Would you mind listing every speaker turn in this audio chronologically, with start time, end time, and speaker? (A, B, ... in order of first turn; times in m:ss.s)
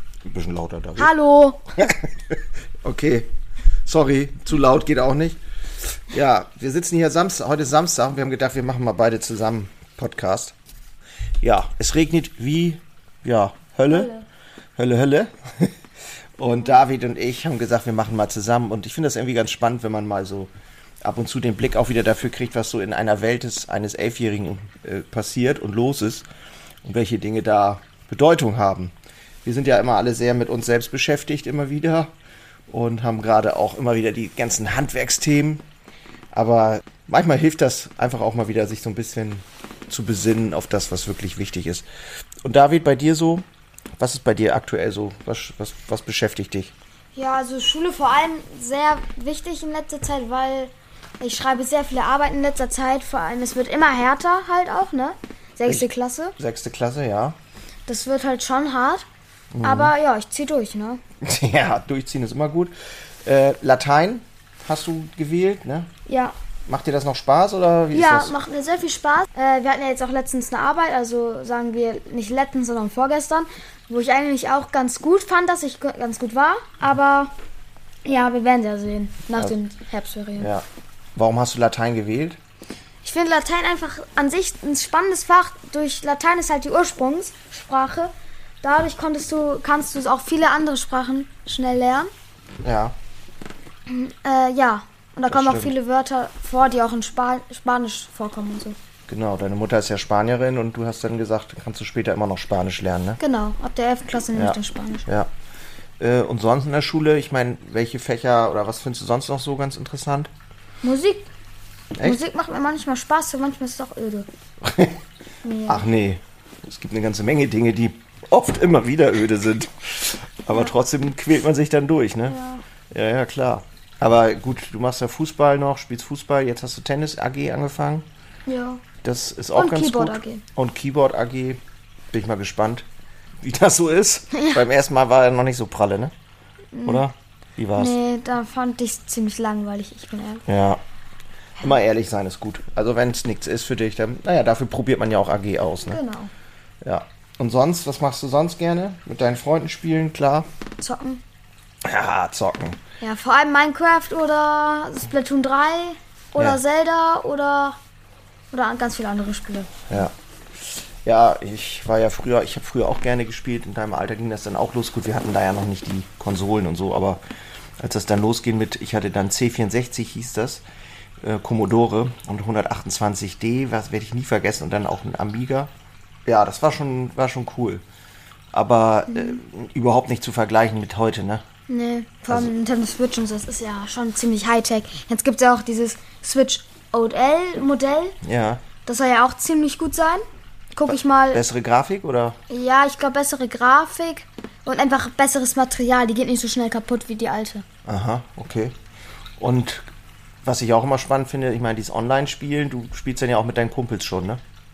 0:00.2-0:01.1 A
0:01.0-0:01.6 B
0:01.8-0:03.3 A
0:03.9-0:10.6 A
0:11.4-0:14.1 A
0:13.9-0:14.3 B
0:14.8-0:15.8 A
0:16.4-0:20.5 A
0:21.0-0:26.3 A
0:26.8-0:28.9 A
0:29.4-0:32.1 A
0:32.7-0:35.6 A
0:36.3-0:41.9 A
0:42.4-0:43.4 A
0:44.0-0:46.7 A
0:47.2-0:56.4 B
0:56.4-0:57.4 A
0:57.9-0:59.1 B
0:59.5-0:59.9 A
0:59.6-1:01.0 B
1:01.2-1:02.7 A
1:03.2-1:05.9 A
1:06.1-1:06.4 B
1:06.7-1:08.3 A
1:07.9-1:17.3 B
1:18.0-1:20.5 B
1:20.4-1:20.6 A
1:21.2-1:22.4 A
1:23.0-1:32.1 B
1:32.6-1:33.0 A
1:33.9-1:38.8 B
1:35.3-1:35.7 A
1:39.1-1:43.2 A
1:43.2-1:45.1 B
1:44.4-1:45.3 A
1:46.0-1:50.3 A
1:50.8-1:51.3 B
1:52.0-1:54.3 B
1:54.6-1:55.0 A
1:55.4-1:55.8 B
1:55.7-2:02.4 A
2:02.3-2:02.6 B
2:02.9-2:08.1 A
2:08.5-2:08.8 B
2:09.0-2:11.6 A
2:09.5-2:10.4 B
2:12.1-2:12.9 A
2:13.4-2:16.1 A
2:16.7-2:17.0 B
2:16.8-2:17.9 A
2:17.8-2:20.4 B
2:20.5-2:20.8 A
2:21.6-2:26.0 A
2:25.9-2:26.3 B
2:26.8-2:30.5 A
2:30.8-2:31.2 B
2:31.8-2:32.8 A
2:33.0-2:37.8 B
2:38.5-2:40.0 B
2:41.0-2:47.2 A
2:47.8-2:50.6 A
2:51.2-2:55.7 A
2:56.3-2:57.8 A
2:58.5-3:01.4 A
2:59.1-2:59.4 B
3:01.7-3:08.2 B
3:08.2-3:08.6 A
3:08.9-3:10.2 B
3:10.8-3:11.4 B
3:10.9-3:12.4 A
3:12.5-3:17.6 B
3:17.9-3:18.8 A
3:19.4-3:19.9 A
3:20.4-3:24.4 A